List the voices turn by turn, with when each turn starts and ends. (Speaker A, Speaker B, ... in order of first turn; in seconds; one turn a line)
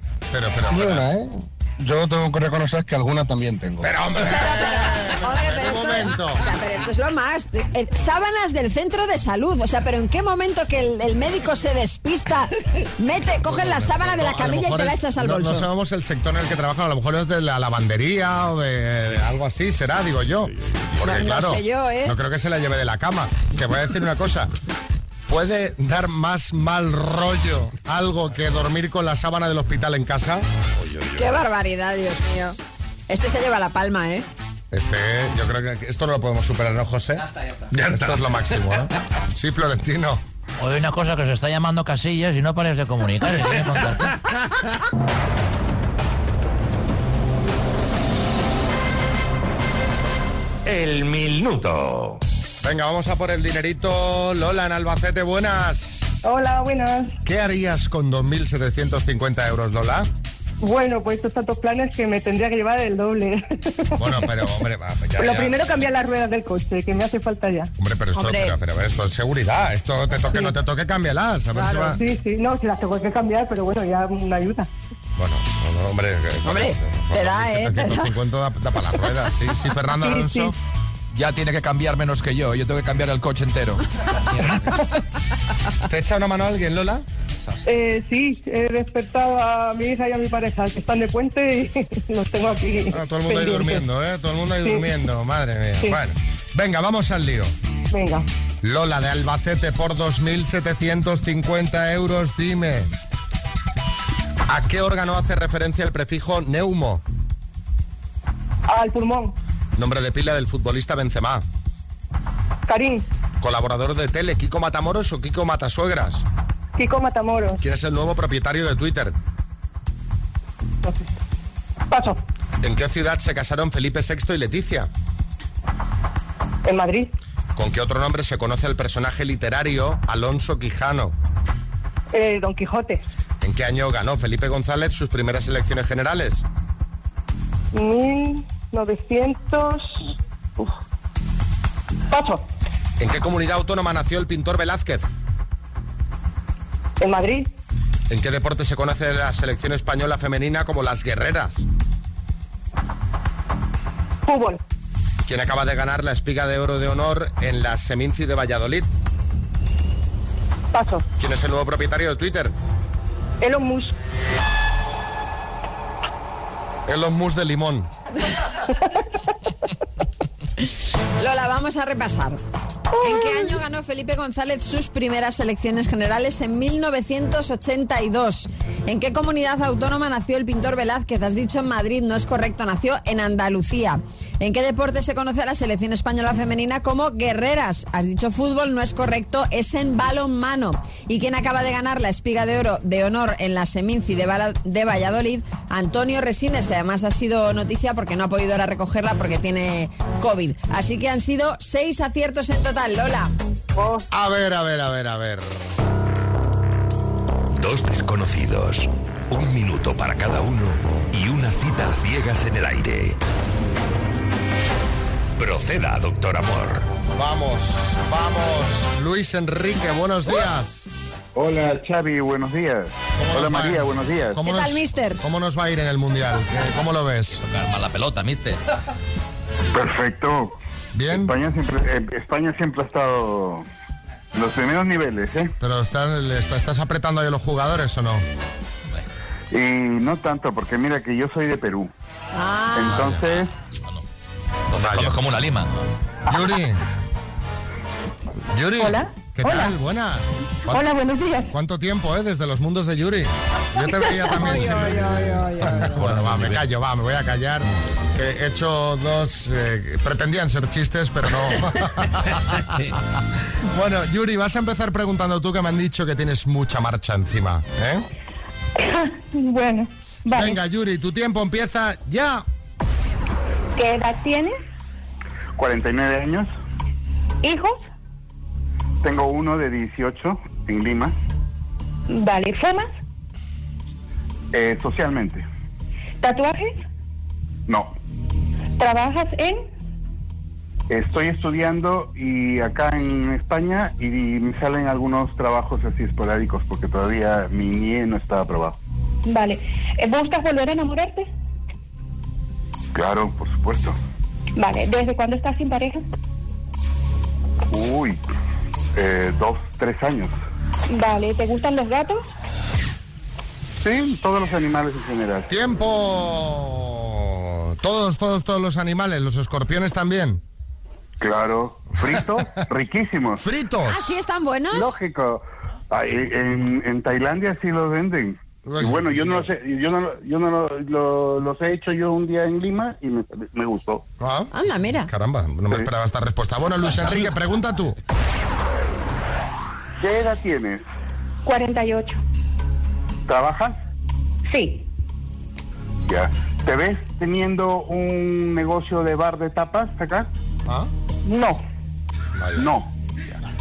Speaker A: 0.3-1.1
Speaker B: 0.7-3.9
Speaker A: 3.8-6.4
Speaker C: 4.2-15.7
Speaker A: 13.4-24.5
Speaker C: 21.0-22.1
Speaker A: 25.3-30.5
Speaker C: 31.1-32.6
Speaker C: 33.1-34.3
Speaker A: 34.7-37.2
Speaker D: 37.7-38.3
Speaker A: 37.9-40.2
Speaker E: 40.6-44.1
Speaker D: 50.7-52.2
Speaker A: 52.6-56.2
Speaker F: 56.2-57.2
Speaker A: 57.2-60.1
Speaker F: 60.6-64.3
Speaker A: 64.0-65.6
Speaker F: 65.2-67.7
Speaker A: 67.8-72.0
Speaker C: 68.2-68.5
Speaker C: 71.5-72.0
Speaker F: 72.0-74.7
Speaker A: 75.2-80.5
Speaker C: 76.5-78.1
Speaker F: 80.0-80.5
Speaker G: 81.1-83.8
Speaker G: 84.3-84.8
Speaker A: 85.9-87.0
Speaker F: 87.7-93.8
Speaker A: 92.9-97.5
Speaker F: 94.6-94.9
Speaker F: 97.9-98.3
Speaker A: 98.6-102.9
Speaker A: 104.5-107.0
Speaker F: 108.7-109.4
Speaker A: 109.8-111.4
Speaker F: 112.7-113.1
Speaker A: 113.4-116.2
Speaker F: 116.8-117.6
Speaker A: 117.6-119.2
Speaker F: 120.8-121.1
Speaker F: 121.9-122.2
Speaker A: 122.6-124.9
Speaker F: 126.7-127.1
Speaker A: 127.6-131.2
Speaker F: 132.1-133.0
Speaker A: 133.4-136.4
Speaker F: 137.7-140.7
Speaker F: 142.1-142.5
Speaker A: 143.0-145.1
Speaker F: 147.0-147.5
Speaker A: 148.1-151.7
Speaker F: 154.3-154.6
Speaker A: 155.3-158.9
Speaker F: 160.7-161.1
Speaker A: 161.2-162.5
Speaker F: 163.4-163.9
Speaker A: 166.9-167.9
Speaker C: 171.2-172.4
Speaker F: 172.9-173.6
Speaker C: 173.0-203.3
Speaker A: 204.1-205.7
Speaker D: 207.5-213.2
Speaker D: 215.4-216.9
Speaker A: 217.2-220.9
Speaker H: 221.3-224.4
Speaker A: 223.2-227.4
Speaker C: 224.4-225.2
Speaker G: 227.3-228.6
Speaker H: 229.7-230.6
Speaker A: 230.9-231.3
Speaker H: 231.1-233.7
Speaker H: 234.3-235.5
Speaker A: 235.6-238.2
Speaker H: 239.5-241.9
Speaker C: 242.4-242.9
Speaker H: 242.7-243.5
Speaker G: 244.7-245.7
Speaker A: 244.8-245.2
Speaker A: 246.3-246.8
Speaker A: 248.5-250.9
Speaker F: 250.7-251.5
Speaker A: 251.5-262.9
Speaker C: 254.3-256.1
Speaker A: 263.7-268.1
Speaker F: 268.9-270.5
Speaker A: 270.3-272.4
Speaker H: 275.6-276.5
Speaker H: 279.0-281.1
Speaker I: 282.2-282.9
Speaker H: 284.5-285.4
Speaker H: 287.7-287.9
Speaker I: 289.0-289.3
Speaker H: 290.9-298.8
Speaker I: 299.3-301.2
Speaker H: 302.9-304.0
Speaker I: 304.6-306.0
Speaker H: 307.7-308.2
Speaker H: 308.9-310.3
Speaker I: 311.0-312.2
Speaker H: 313.8-315.5
Speaker A: 315.5-320.4
Speaker H: 321.2-323.4
Speaker A: 323.4-324.1
Speaker C: 323.9-325.0
Speaker H: 324.7-334.0
Speaker A: 328.6-329.5
Speaker A: 334.2-334.5
Speaker C: 334.5-335.1
Speaker A: 335.1-338.0
Speaker H: 340.0-340.9
Speaker I: 341.5-342.2
Speaker H: 343.3-343.8
Speaker H: 346.1-350.3
Speaker A: 352.4-352.7
Speaker H: 352.6-352.9